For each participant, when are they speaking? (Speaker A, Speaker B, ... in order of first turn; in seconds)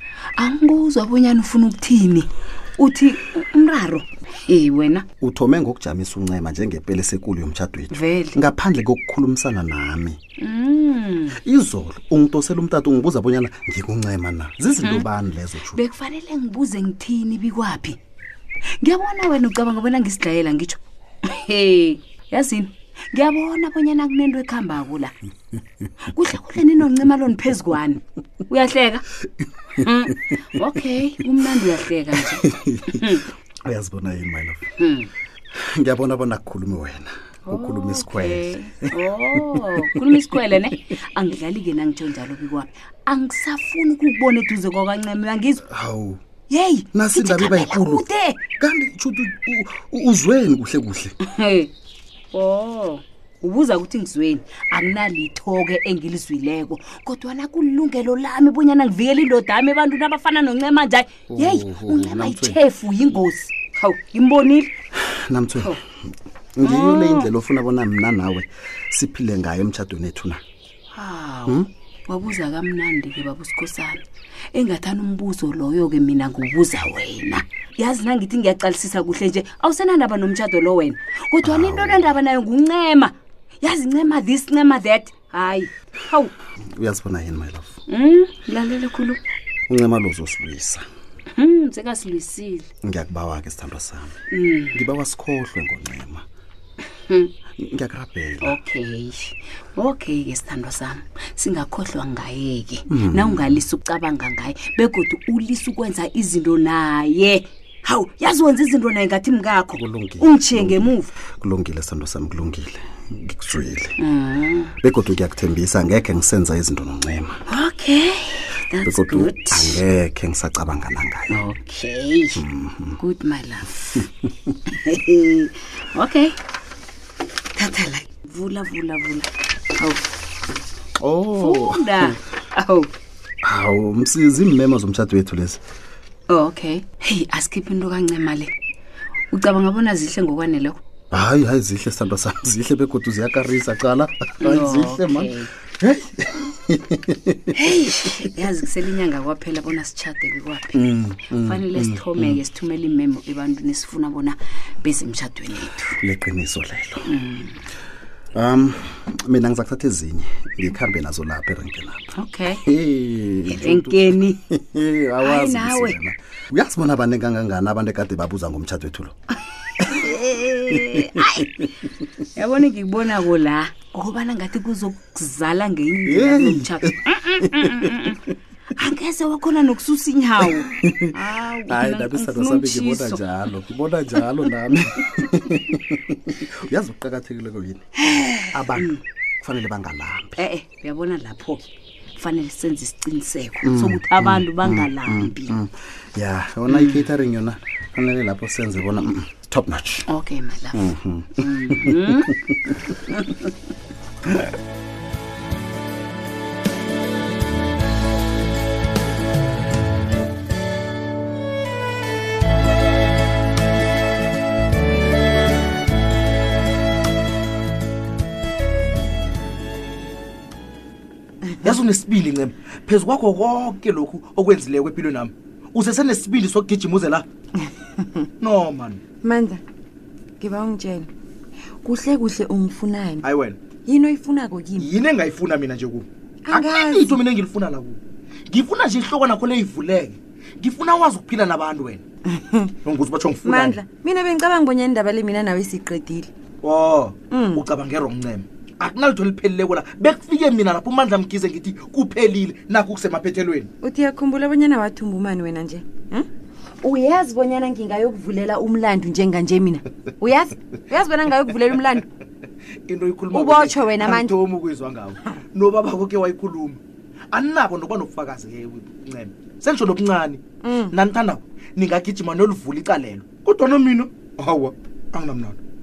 Speaker A: 0.4-5.0, 7.9-8.4, 10.4-11.4, 15.7-18.0, 18.8-25.1, 26.1-29.0, 29.8-33.2, 34.8-35.1, 37.5-45.6, 46.5-48.4, 51.2-51.7, 52.3-64.7, 66.6-67.3, 70.9-74.0, 74.5-86.3, 87.9-89.2, 91.3-92.7, 94.3-94.8, 98.4-111.1, 114.0-114.7, 117.5-119.8, 121.3-122.4, 123.0-124.0, 124.7-126.3, 128.1-130.0, 131.4-132.9, 136.3-138.5, 139.3-140.8, 144.4-145.5, 147.5-150.8, 151.4-156.0, 157.1-157.6, 162.1-162.6, 163.5-164.4, 165.2-166.0, 169.7-171.6, 172.3-178.2, 178.8-183.2, 188.0-189.0, 190.4-191.6, 192.2-195.6, 196.7-197.0, 200.1-203.5
Speaker B: 5.2-10.2, 11.4-15.8, 32.2-33.1, 33.6-34.6, 35.5-40.1, 45.6-46.2, 46.9-48.0, 48.6-51.1, 61.3-62.6, 65.0-70.4, 81.4-82.1, 86.7-87.7, 89.7-90.8, 92.8-94.2, 94.7-96.2, 97.6-98.6, 102.9-103.6, 109.7-114.0, 114.8-117.4, 118.8-121.4, 122.4-123.0, 131.0-132.2, 133.4-135.6, 141.1-147.6, 150.7-152.4, 156.0-157.1, 158.3-169.1, 170.7-171.1, 176.1-178.2, 180.4-187.8, 188.5-190.4, 193.6-200.1, 200.7-202.8
Speaker C: 127.6-127.9, 227.6-228.2, 229.2-229.6, 230.4-231.1, 231.8-233.2, 233.8-234.9, 236.4-237.2, 242.3-242.7, 243.4-246.3, 247.3-247.6, 253.8-256.3, 256.8-262.1, 263.3-264.3, 270.6-271.0
Speaker D: 221.6-227.2, 228.4-229.0, 233.2-233.6, 234.8-242.0, 242.8-243.8, 246.6-253.7, 262.9-266.8, 267.3-275.6